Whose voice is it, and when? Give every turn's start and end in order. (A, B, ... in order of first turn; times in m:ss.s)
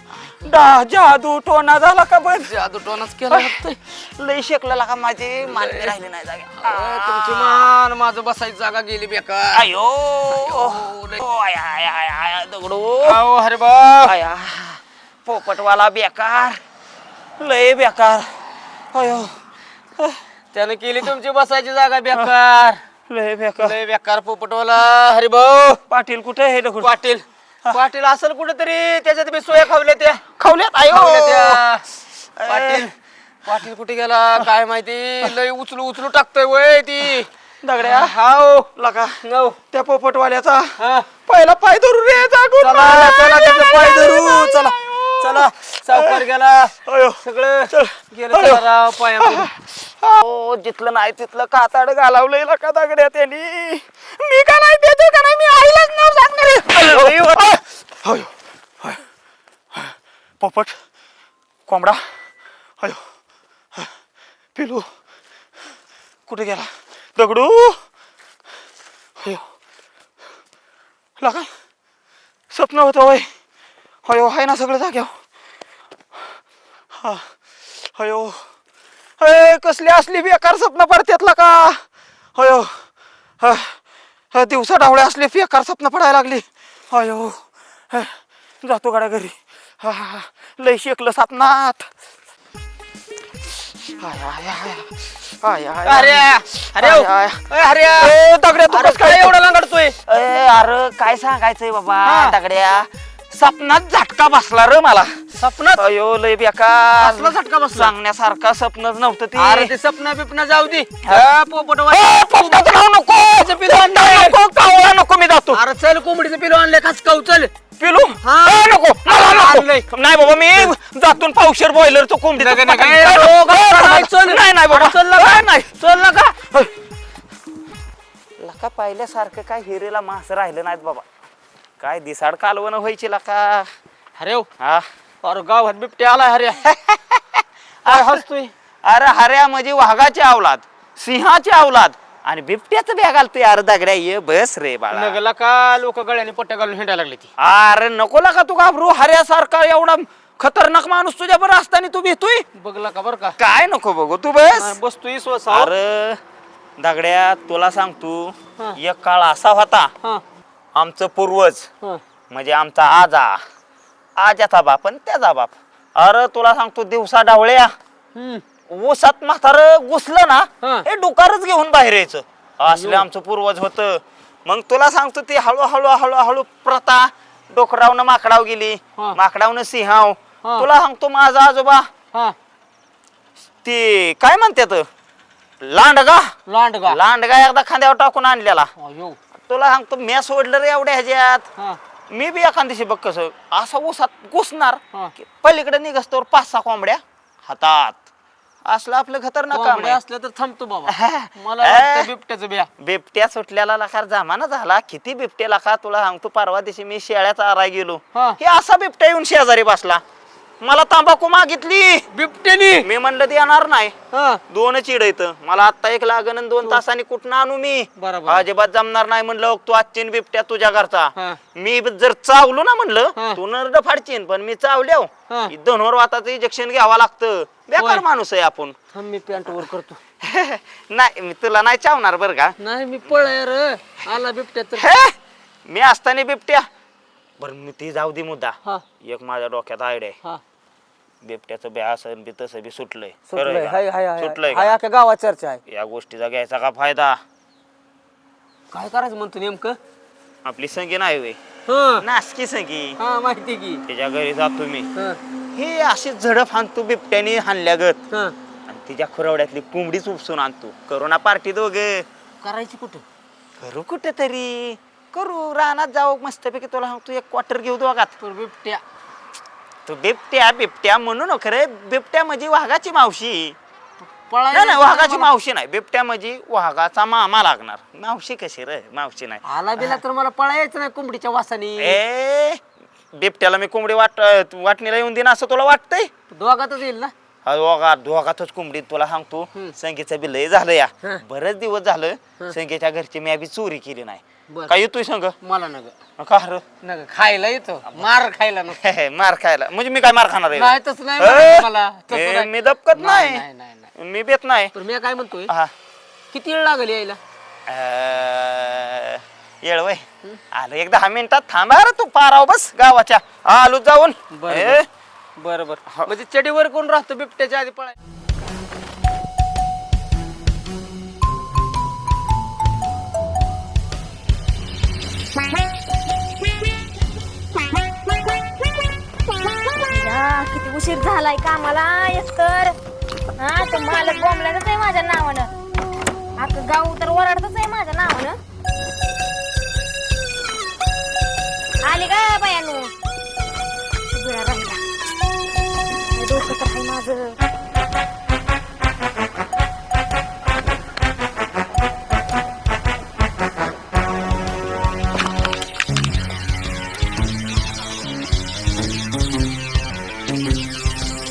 0:00.4-0:02.5 A
0:02.4-0:03.8 B
0:03.3-0:07.7 A
0:05.5-0:05.9 B
0:06.6-0:09.7 B
0:09.5-0:13.2 A
0:10.4-0:11.2 B
0:13.0-0:14.1 B
0:14.0-0:16.6 A
0:17.4-0:18.3 A
0:18.9-0:19.3 A
0:20.5-0:22.8 B
0:23.1-0:23.7 A
0:23.6-0:25.8 B
0:25.9-0:27.0 A
0:26.8-0:30.2 B
0:30.4-0:31.6 A
0:30.9-0:31.8 B
0:32.4-0:32.8 A
0:32.5-0:32.9 B
0:33.4-0:37.3 B
0:37.6-0:38.2 A
0:37.8-0:38.7 B
0:38.8-0:39.2 A
0:39.2-0:39.6 B
0:39.7-0:46.2 A
0:40.8-0:41.1 B
0:42.6-0:49.5 B
0:46.8-0:48.6 A
0:49.2-0:59.0 A
0:56.8-0:57.3 B
0:59.7-1:00.8 A
1:01.7-1:02.1 A
1:04.6-1:04.9 A
1:06.3-1:07.8 A
1:11.2-1:11.5 A
1:12.5-1:13.3 A
1:14.0-1:15.1 A
1:17.0-1:17.3 A
1:17.8-1:18.4 A
1:19.2-1:21.8 A
1:22.4-1:22.8 A
1:23.4-1:23.8 A
1:24.3-1:31.9 A
1:34.0-1:39.4 A
1:35.8-1:38.1 B
1:38.6-1:40.0 B
1:40.0-1:49.7 A
1:42.0-1:42.4 B
1:45.4-1:45.8 B
1:47.0-1:47.9 B
1:49.3-1:54.4 B
1:51.9-1:55.6 A
1:55.5-1:57.5 B
1:57.8-2:06.7 A
1:58.2-1:59.8 B
2:02.4-2:06.2 B
2:08.4-2:11.0 A
2:11.8-2:13.7 A
2:14.2-2:14.5 B
2:14.6-2:14.9 A
2:15.2-2:16.6 B
2:16.6-2:18.2 A
2:17.8-2:18.5 B
2:18.8-2:25.2 A
2:24.9-2:27.3 B
2:27.4-2:32.5 A
2:32.6-2:33.3 B
2:33.4-2:34.8 A
2:34.5-2:35.7 B
2:35.5-2:36.2 A
2:36.8-2:39.9 A
2:40.7-2:41.7 A
2:42.3-2:43.4 A
2:44.2-2:47.7 A
2:48.1-2:48.4 B
2:48.7-3:01.9 A
2:50.6-2:50.8 B
2:52.7-2:53.1 B
3:00.4-3:00.7 B
3:03.6-3:04.9 A
3:05.6-3:06.3 A
3:06.5-3:07.0 B
3:06.8-3:08.7 A
3:08.8-3:09.2 B
3:09.5-3:11.5 A
3:12.1-3:18.0 A
3:18.6-3:20.0 A
3:19.5-3:22.7 B
3:20.9-3:22.1 A
3:22.8-3:30.0 A
3:28.1-3:28.4 B
3:30.6-3:32.0 A
3:32.1-3:32.9 B
3:32.8-3:33.9 A
3:34.1-3:34.4 B
3:34.5-3:48.8 A
3:38.0-3:38.4 B
3:43.2-3:43.4 B
3:47.8-3:48.0 B
3:48.9-3:50.0 B
3:50.2-3:52.6 A
3:52.6-3:54.9 B
3:54.8-3:56.7 A
3:57.4-4:00.2 A
4:01.2-4:04.8 A
4:03.3-4:05.6 B
4:05.7-4:07.2 A
4:08.7-4:09.8 B
4:10.4-4:11.4 A
4:11.7-4:12.0 B
4:12.0-4:13.0 A
4:13.0-4:13.8 B
4:13.9-4:14.9 A
4:15.5-4:18.0 A
4:18.7-4:22.0 A
4:22.4-4:23.0 B
4:23.6-4:28.1 A
4:28.2-4:28.8 B
4:29.8-4:33.6 A
4:34.3-4:35.3 B
4:34.5-4:40.0 A
4:39.4-4:42.0 B
4:41.8-4:42.6 A
4:43.1-4:46.1 A
4:46.3-4:47.1 B
4:47.4-4:55.4 A
4:55.4-4:55.9 B
4:56.2-4:56.6 A
4:56.8-4:58.8 B
4:58.8-5:03.4 A
5:00.5-5:03.9 B
5:04.0-5:04.7 A
5:04.7-5:05.5 B
5:06.3-5:07.2 B
5:07.7-5:14.8 A
5:14.3-5:14.8 B
5:15.4-5:17.9 B
5:29.5-5:32.7 C
5:33.4-5:35.5 C
5:36.4-5:38.4 C
5:41.8-5:42.9 C
5:44.1-5:44.8 C
5:46.1-5:47.4 C